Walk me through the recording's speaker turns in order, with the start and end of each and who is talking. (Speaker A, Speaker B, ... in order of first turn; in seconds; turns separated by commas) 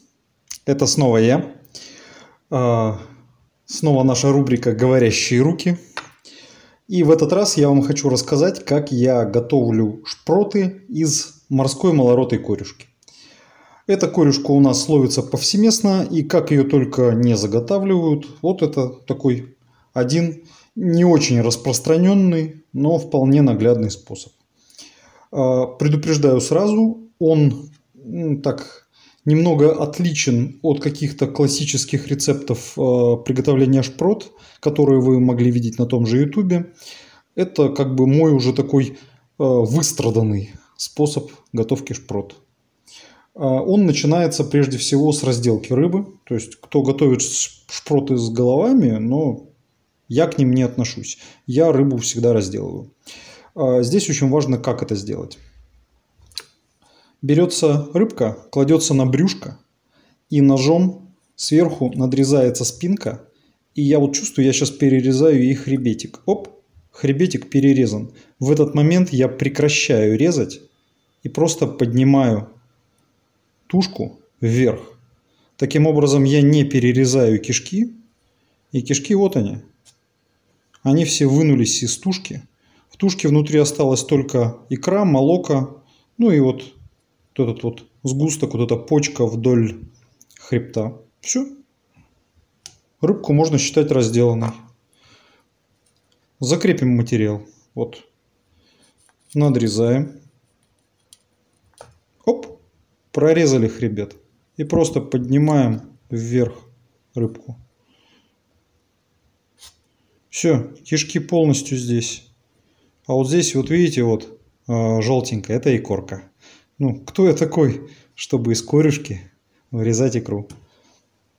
Speaker A: 0.7-1.6, Speaker A: 2.5-3.0, Speaker A: 3.7-5.8, Speaker A: 6.9-12.9, Speaker A: 13.9-24.3, Speaker A: 25.3-36.7, Speaker A: 37.4-42.4, Speaker A: 43.4-49.5, Speaker A: 50.1-52.9, Speaker A: 53.5-55.4, Speaker A: 57.2-59.6, Speaker A: 60.3-63.2, Speaker A: 63.7-70.6, Speaker A: 71.2-72.5, Speaker A: 73.7-75.0, Speaker A: 75.6-78.0, Speaker A: 78.7-79.6, Speaker A: 80.8-86.8, Speaker A: 87.3-89.8, Speaker A: 90.4-91.5, Speaker A: 93.0-94.6, Speaker A: 96.4-98.0, Speaker A: 99.3-100.2, Speaker A: 102.2-102.6, Speaker A: 103.1-107.6, Speaker A: 110.3-112.2, Speaker A: 113.1-116.3, Speaker A: 116.8-120.5